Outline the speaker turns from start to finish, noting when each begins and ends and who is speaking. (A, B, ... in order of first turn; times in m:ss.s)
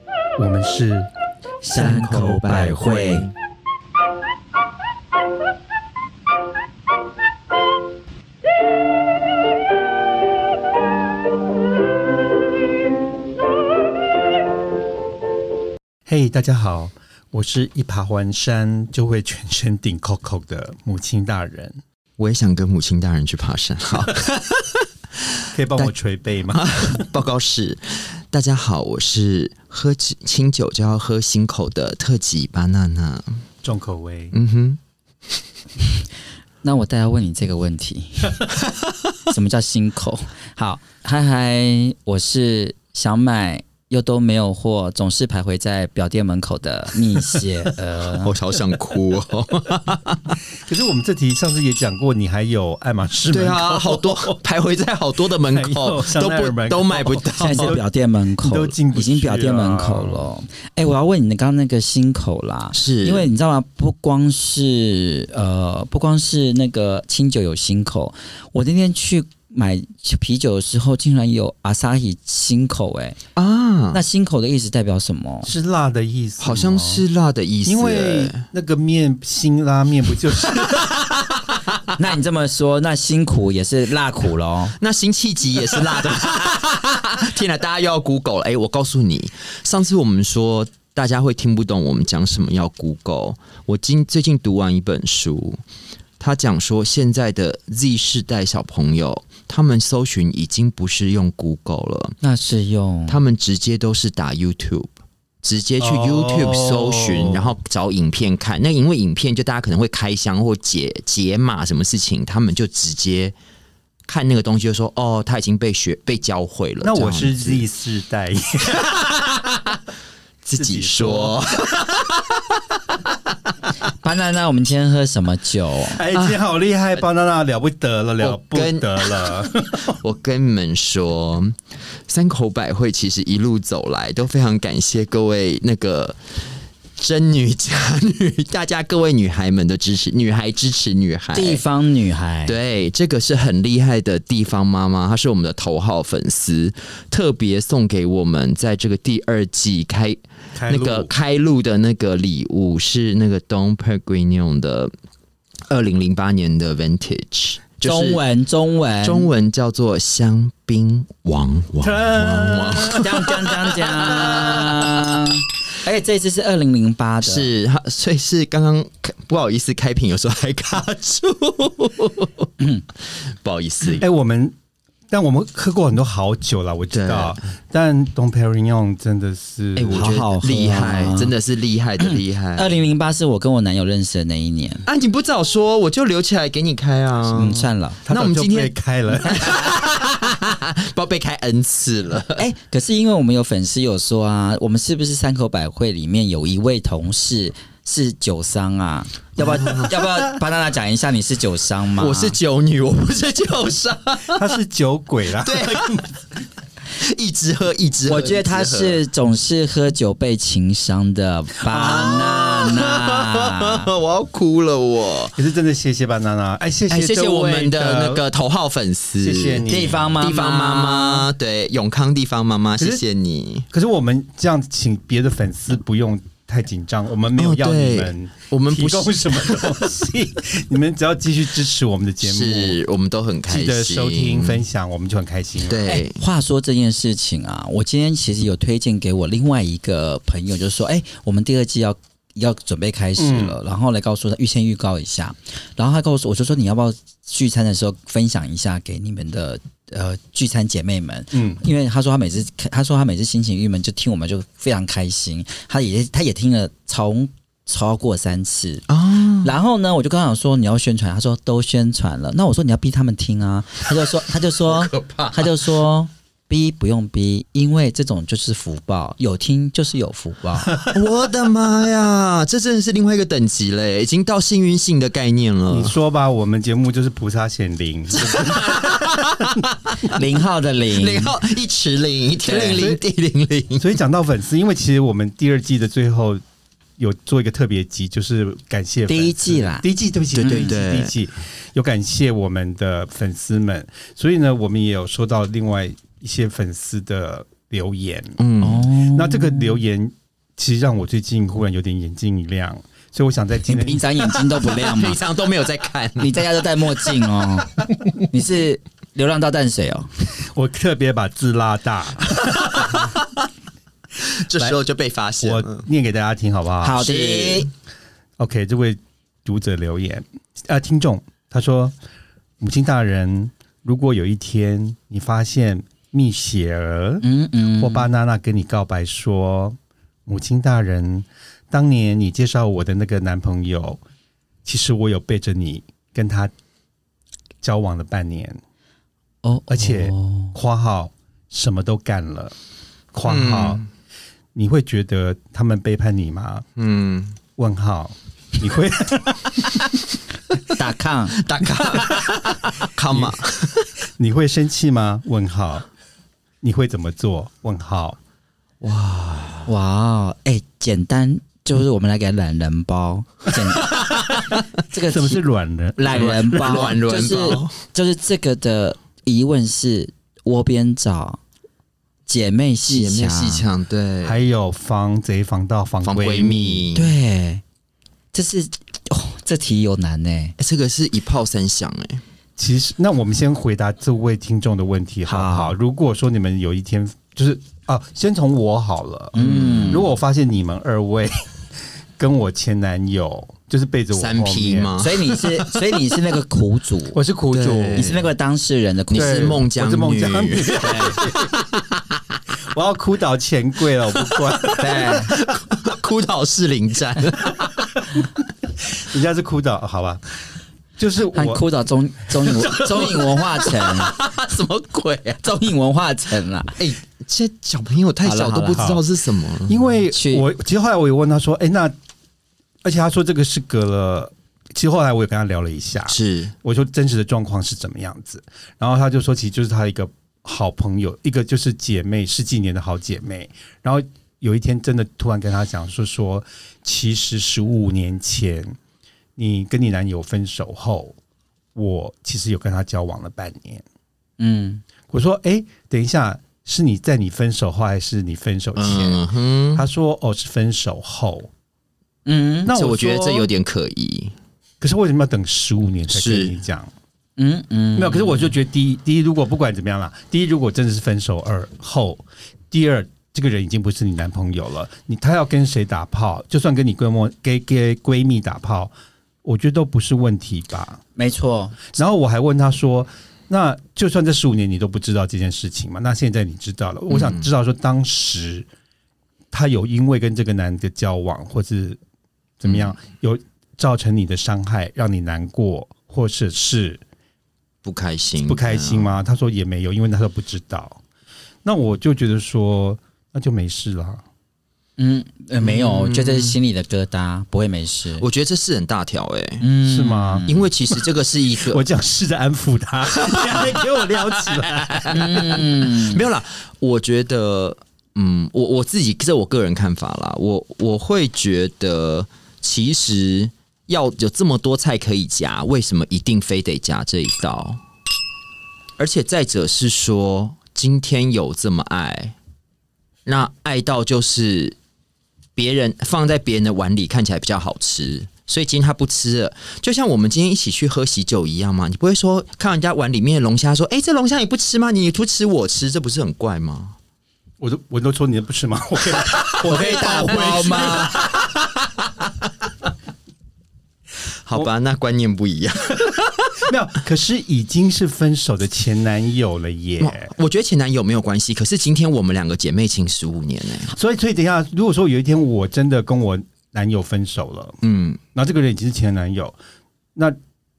0:00.4-0:01.1 A
0:01.6-0:03.3 B
0:01.7-0:03.3 C
0:16.0-0:21.7 A
0:22.2-0:24.8 C
0:25.4-0:25.9 C
0:25.5-0:27.1 A
0:26.5-0:33.4 C
0:33.6-0:34.3 A
0:34.3-0:34.8 C
0:36.6-0:38.5 B
0:39.3-0:48.3 B
0:48.1-0:50.4 C
0:50.6-0:54.4 A
0:53.3-0:57.8 C
0:55.5-0:57.8 A
0:57.4-1:13.2 B
0:58.4-1:00.3 A
1:02.7-1:03.3 C
1:13.4-1:14.0 C
1:13.9-1:15.5 B
1:15.4-1:17.0 A
1:16.4-1:18.4 C
1:17.6-1:20.9 A
1:22.0-1:24.8 B
1:24.8-1:35.6 C
1:36.2-1:42.2 C
1:42.2-1:43.2 B
1:43.1-1:44.9 C
1:45.4-1:53.3 C
1:45.8-1:47.5 A
1:54.1-1:57.6 C
1:56.8-1:59.2 A
1:59.0-1:59.7 C
2:00.4-2:02.5 C
2:00.5-2:01.7 A
2:03.9-2:06.0 B
2:05.9-2:09.9 A
2:08.2-2:21.6 C
2:21.3-2:22.6 B
2:22.4-2:34.9 C
2:30.5-2:31.1 A
2:35.7-2:38.2 C
2:37.8-2:39.3 B
2:39.0-2:44.9 C
2:41.8-2:43.3 A
2:42.9-2:47.5 B
2:47.2-2:52.5 C
2:53.0-2:54.0 C
2:54.0-2:54.5 A
2:55.1-3:00.2 A
2:56.9-2:57.4 C
2:59.8-3:02.7 C
2:59.9-3:01.3 B
3:02.0-3:04.8 B
3:04.8-3:12.4 C
3:07.3-3:08.0 B
3:08.0-3:09.5 A
3:12.4-3:22.4 B
3:19.5-3:19.9 C
3:22.0-3:24.5 C
3:24.3-3:26.2 A
3:25.4-3:26.0 C
3:27.0-3:29.0 C
3:28.0-3:33.9 B
3:31.7-3:32.4 A
3:31.7-3:35.4 C
3:35.4-3:38.2 A
3:36.9-3:43.7 C
3:39.2-3:40.2 A
3:39.7-3:41.3 B
3:43.7-3:52.8 A
3:47.4-3:49.9 C
3:52.2-3:54.6 C
3:53.5-3:55.9 A
3:55.6-3:56.2 C
3:55.9-4:30.7 B
4:03.2-4:03.6 A
4:11.3-4:11.6 A
4:18.9-4:19.5 C
4:24.6-4:25.7 C
4:30.8-4:35.9 C
4:35.7-4:38.9 A
4:38.2-4:40.2 C
4:40.0-4:41.3 B
4:40.9-4:43.9 C
4:42.5-4:42.8 B
4:42.7-4:43.0 A
4:43.8-4:46.4 A
4:47.0-4:58.4 A
4:49.1-4:49.8 B
4:50.3-4:51.1 C
4:50.4-4:50.7 B
4:58.4-4:58.9 C
4:58.6-4:59.8 B
4:59.0-5:04.0 A
5:03.6-5:05.2 B
5:04.3-5:06.4 C
5:06.2-5:10.1 B
5:10.4-5:13.1 A
5:12.7-5:13.3 C
5:14.2-5:15.8 C
5:15.4-5:17.1 A
5:16.8-5:17.7 B
5:17.0-5:17.7 C
5:18.4-5:21.9 A
5:22.6-5:27.2 A
5:27.2-5:28.1 B
5:27.8-5:34.0 A
5:34.6-5:36.5 A
5:37.6-5:38.6 A
5:39.4-5:40.5 B
5:39.7-5:42.5 A
5:43.1-5:43.8 A
5:43.2-5:43.8 C
5:44.5-5:46.6 A
5:46.8-5:47.4 C
5:47.6-5:49.8 A
5:50.8-5:51.4 B
5:51.4-5:53.9 C
5:52.0-5:52.3 A
5:53.1-5:53.4 A
5:54.2-5:55.8 A
5:56.6-5:58.2 A
5:58.8-5:59.7 C
5:59.6-6:04.0 B
6:03.9-6:04.5 C
6:04.9-6:05.4 B
6:05.0-6:06.9 A
6:06.0-6:11.4 B
6:06.1-6:07.7 C
6:12.3-6:13.6 B
6:12.8-6:14.4 C
6:14.2-6:16.9 A
6:16.0-6:17.1 C
6:16.9-6:17.6 B
6:18.3-6:20.6 B
6:20.6-6:22.2 C
6:22.6-6:31.4 A
6:25.2-6:25.7 B
6:29.3-6:30.1 B
6:29.4-6:30.1 C
6:32.2-6:34.9 A
6:34.1-6:35.7 C
6:35.0-6:37.2 B
6:37.1-6:38.1 A
6:37.5-6:38.3 C
6:38.0-6:39.5 B
6:39.1-6:41.8 C
6:39.1-6:41.5 A
6:40.9-6:41.2 B
6:42.7-6:45.1 A
6:44.1-6:47.9 C
6:44.8-6:45.3 B
6:48.8-6:50.2 A
6:51.0-6:51.6 A
6:51.3-6:54.1 B
6:52.5-6:53.1 A
6:52.7-6:55.4 C
6:55.4-6:56.8 B
6:56.8-6:59.9 C
6:58.2-6:58.9 B
6:58.7-6:59.0 A
6:59.7-7:01.9 A
7:00.1-7:00.4 B
7:02.8-7:18.8 A
7:06.1-7:06.5 C
7:19.4-7:21.1 A
7:21.7-7:23.8 A
7:24.4-7:24.8 B
7:25.1-7:31.5 A
7:28.8-7:29.8 C
7:32.2-7:32.7 B
7:32.6-7:33.5 A
7:32.7-7:34.3 C
7:34.8-7:36.9 A
7:36.1-7:36.5 C
7:37.4-7:38.5 B
7:38.0-7:48.9 A
7:49.4-7:51.0 A
7:51.2-7:51.8 B
7:51.9-7:58.7 A
7:57.1-7:57.5 C
7:59.5-8:02.0 A
8:02.6-8:07.0 A
8:02.7-8:02.9 C
8:07.8-8:09.1 C
8:08.4-8:11.0 A
8:11.6-8:14.2 A
8:15.0-8:18.2 B
8:15.6-8:16.6 C
8:18.2-8:19.6 C
8:19.6-8:20.5 B
8:19.8-8:20.7 A
8:20.5-8:21.8 C
8:21.6-8:25.4 A
8:23.2-8:37.8 C
8:25.1-8:26.2 B
8:39.0-8:42.3 C
8:43.2-8:44.8 C
8:45.6-8:56.9 C
8:57.6-9:01.3 A
8:59.5-9:01.7 C
8:59.6-9:01.2 B
9:04.4-9:06.6 C
9:06.6-9:10.3 A
9:10.0-9:13.9 C
9:13.9-9:17.8 A
9:17.8-9:18.2 C
9:18.3-9:19.6 A